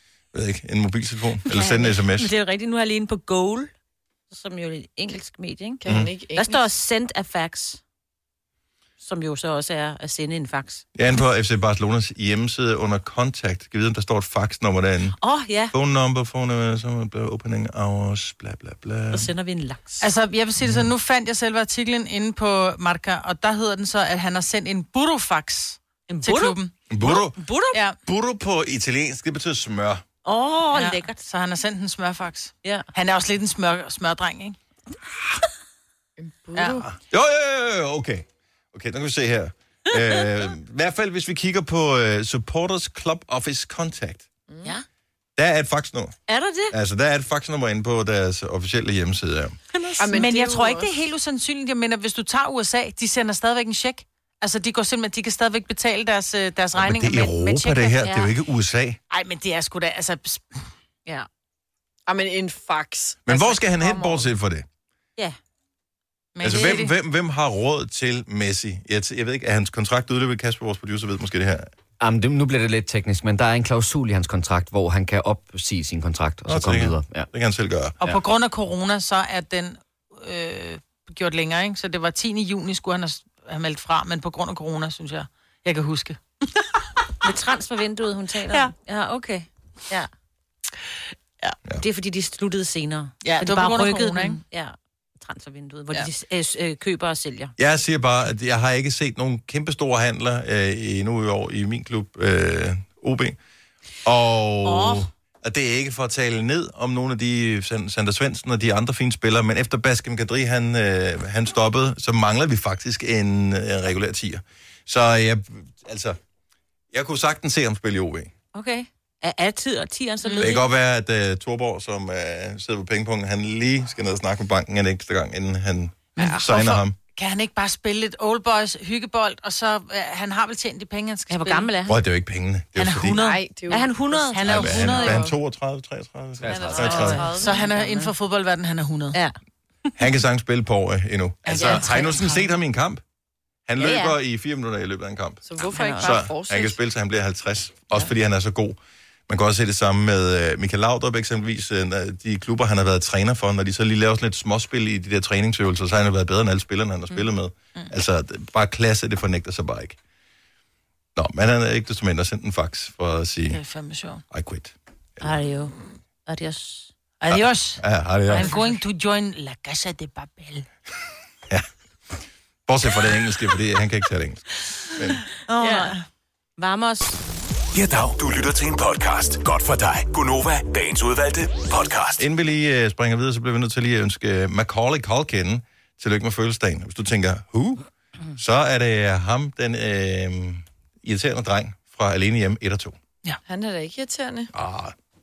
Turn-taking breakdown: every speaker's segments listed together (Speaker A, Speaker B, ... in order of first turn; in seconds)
Speaker A: 0.3-2.3, 5.9-6.1, 10.9-15.2, 15.7-19.3, 20.6-20.9, 26.9-27.4, 28.1-30.0, 36.9-44.3, 45.4-46.2, 46.7-49.6, 56.8-59.0, 63.2-64.7, 66.4-71.7, 76.5-78.0, 97.6-103.4, 104.0-116.2, 116.9-118.3, 120.4-127.0, 131.9-133.2, 134.4-137.3, 140.0-143.0, 143.7-148.8, 149.3-160.0, 161.2-163.6, 164.3-165.4, 167.3-168.6, 172.7-175.2, 182.2-187.8, 188.4-193.0, 194.5-194.9
Speaker B: 1.5-3.7, 4.3-7.8, 9.0-10.8, 15.2-15.7, 19.1-20.1, 26.1-27.8, 30.2-31.2, 32.6-32.9, 46.3-46.7, 49.7-50.3, 58.0-58.3, 66.5-66.8, 87.2-90.1, 91.8-97.5, 118.5-120.6, 131.3-132.0, 133.2-135.2, 136.7-138.1, 141.6-142.0, 143.8-144.2, 145.7-146.2, 165.2-165.7, 166.3-166.9, 168.3-168.6, 175.6-175.9, 176.6-177.2
Speaker C: 5.8-6.7, 36.2-36.9, 44.5-44.7, 50.0-51.0, 62.1-64.3, 133.2-135.3, 136.4-137.6, 145.4-146.8, 193.5-194.5
Speaker D: 20.0-26.7, 30.7-34.6, 36.6-36.8, 50.1-58.1, 59.1-61.1, 66.4-66.9, 78.0-86.6, 88.5-88.7, 93.2-94.4, 104.7-105.0, 126.2-131.7, 132.8-133.4, 134.3-135.2, 137.3-139.2, 141.5-142.5, 163.5-164.2, 167.2-170.7, 175.5-176.1
Speaker E: 72.0-77.3, 136.4-136.8
Speaker F: 177.7-182.3